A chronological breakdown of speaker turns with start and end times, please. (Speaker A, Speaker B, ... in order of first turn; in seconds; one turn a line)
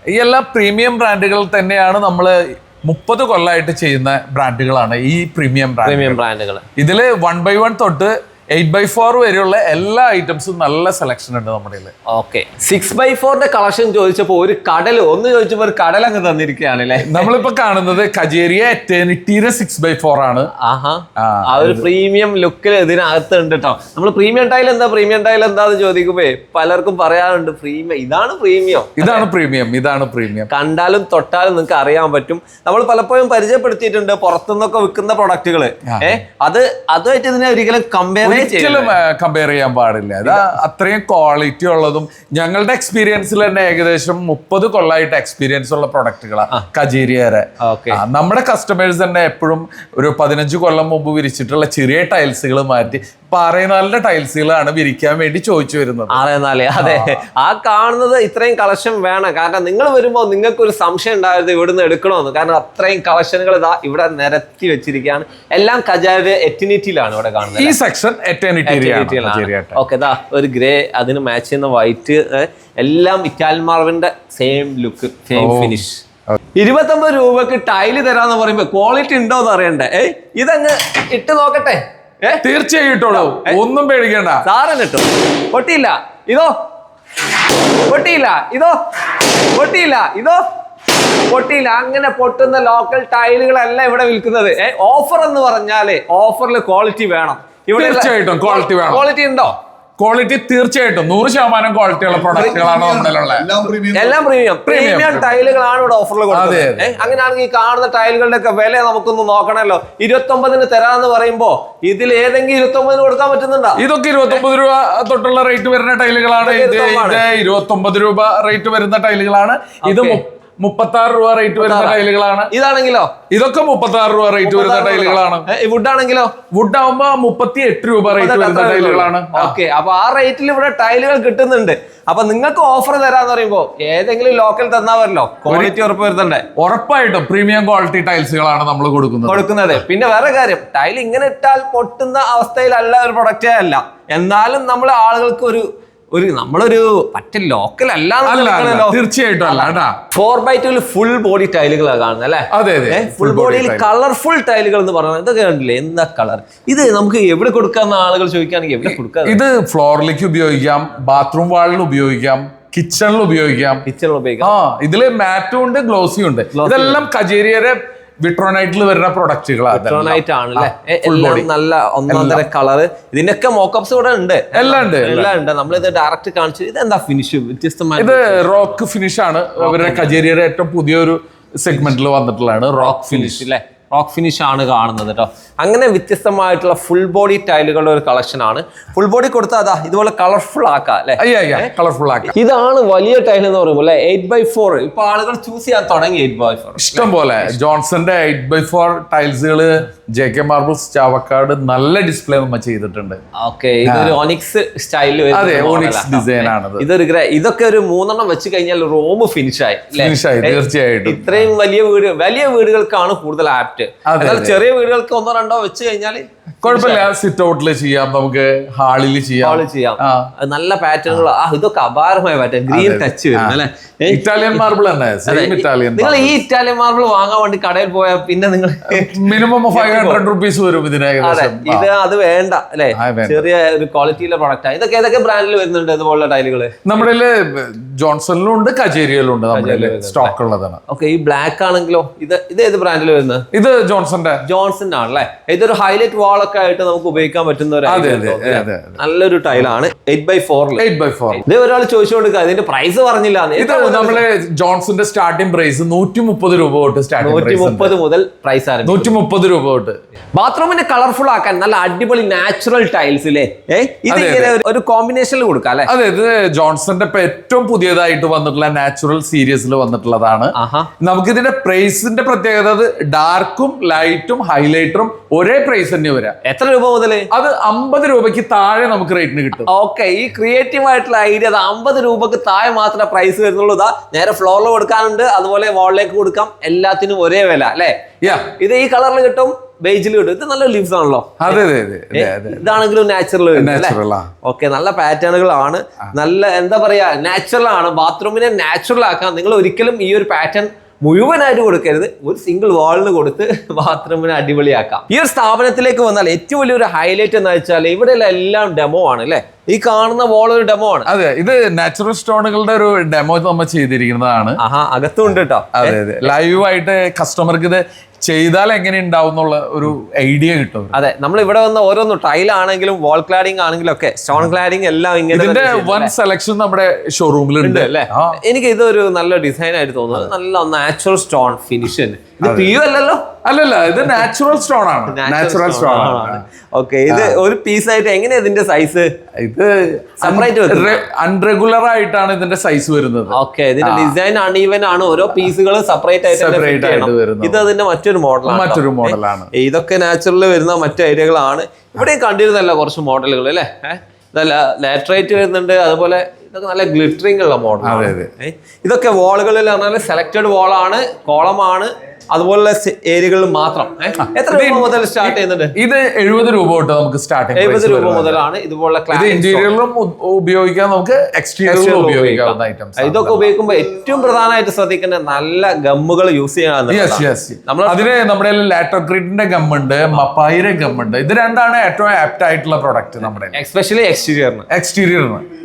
Speaker A: 0.1-6.2
Speaker B: 5.8-6.7
Speaker A: 6.8-11.9
Speaker B: 12.1-17.4
Speaker A: 17.0-20.5
Speaker B: 20.6-29.2
Speaker A: 21.1-21.9
Speaker A: 29.0-30.5
Speaker B: 30.5-39.0
Speaker A: 35.9-36.2
Speaker A: 38.2-56.2
Speaker B: 47.6-48.0
Speaker B: 56.1-67.8
Speaker A: 56.8-57.2
Speaker A: 67.5-69.8
Speaker B: 68.7-76.0
Speaker A: 75.3-75.8
Speaker B: 76.5-82.4
Speaker A: 82.4-84.4
Speaker B: 83.1-83.6
Speaker B: 84.4-86.5
Speaker B: 87.9-90.4
Speaker B: 91.3-99.5
Speaker A: 97.7-99.1
Speaker A: 100.0-103.5
Speaker C: 102.1-104.2
Speaker B: 103.9-114.4
Speaker A: 104.7-105.4
Speaker A: 106.3-107.2
Speaker A: 113.8-122.5
Speaker B: 116.4-117.2
Speaker B: 119.8-120.2
Speaker B: 121.6-123.1
Speaker A: 123.3-125.5
Speaker B: 124.4-126.3
Speaker A: 126.5-129.6
Speaker B: 128.1-136.4
Speaker A: 135.5-135.7
Speaker A: 136.6-139.4
Speaker B: 139.3-159.4
Speaker A: 148.2-150.0
Speaker A: 152.5-153.9
Speaker A: 159.2-163.8
Speaker B: 163.8-164.5
Speaker A: 164.4-171.5
Speaker B: 166.5-167.0
Speaker B: 169.7-178.8
Speaker A: 172.1-172.4
Speaker A: 174.5-175.4
Speaker A: 178.0-183.4
Speaker B: 179.6-180.1
Speaker B: 182.8-191.7
Speaker A: 191.2-192.3
Speaker B: 192.2-197.6
Speaker A: 196.8-203.2
Speaker B: 203.4-217.1
Speaker A: 203.8-204.2
Speaker A: 205.3-206.8
Speaker A: 209.9-211.5
Speaker A: 214.1-214.6
Speaker A: 216.6-220.3
Speaker B: 219.4-224.6
Speaker A: 222.7-226.4
Speaker B: 225.3-230.2
Speaker A: 228.8-231.9
Speaker B: 231.2-236.8
Speaker A: 232.9-233.4
Speaker A: 236.8-240.8
Speaker B: 239.5-240.3
Speaker B: 240.9-243.5
Speaker A: 243.5-244.4
Speaker B: 244.4-254.2
Speaker A: 247.8-249.0
Speaker A: 250.8-251.4
Speaker A: 253.6-257.9
Speaker B: 257.2-259.1
Speaker A: 258.8-260.0
Speaker B: 260.4-265.9
Speaker A: 264.1-264.6
Speaker A: 265.9-276.4
Speaker B: 270.5-270.9
Speaker B: 276.4-277.3
Speaker A: 277.3-279.7
Speaker B: 279.6-311.1
Speaker A: 288.2-288.5
Speaker A: 291.4-292.8
Speaker A: 293.5-294.3
Speaker A: 311.1-314.6
Speaker B: 314.6-316.3
Speaker A: 315.7-320.9
Speaker B: 320.9-326.1
Speaker A: 325.3-328.4
Speaker B: 327.6-333.3
Speaker A: 332.4-332.8
Speaker A: 333.4-336.4
Speaker B: 335.1-339.1
Speaker A: 337.1-337.4
Speaker A: 339.4-344.1
Speaker B: 340.2-341.0
Speaker B: 343.3-365.7
Speaker A: 346.3-347.7
Speaker A: 348.4-349.5
Speaker A: 357.8-358.3
Speaker A: 364.2-368.4
Speaker B: 367.5-369.7
Speaker A: 369.1-373.5
Speaker B: 371.6-378.1
Speaker A: 376.9-383.6
Speaker B: 383.5-384.7
Speaker A: 384.7-385.4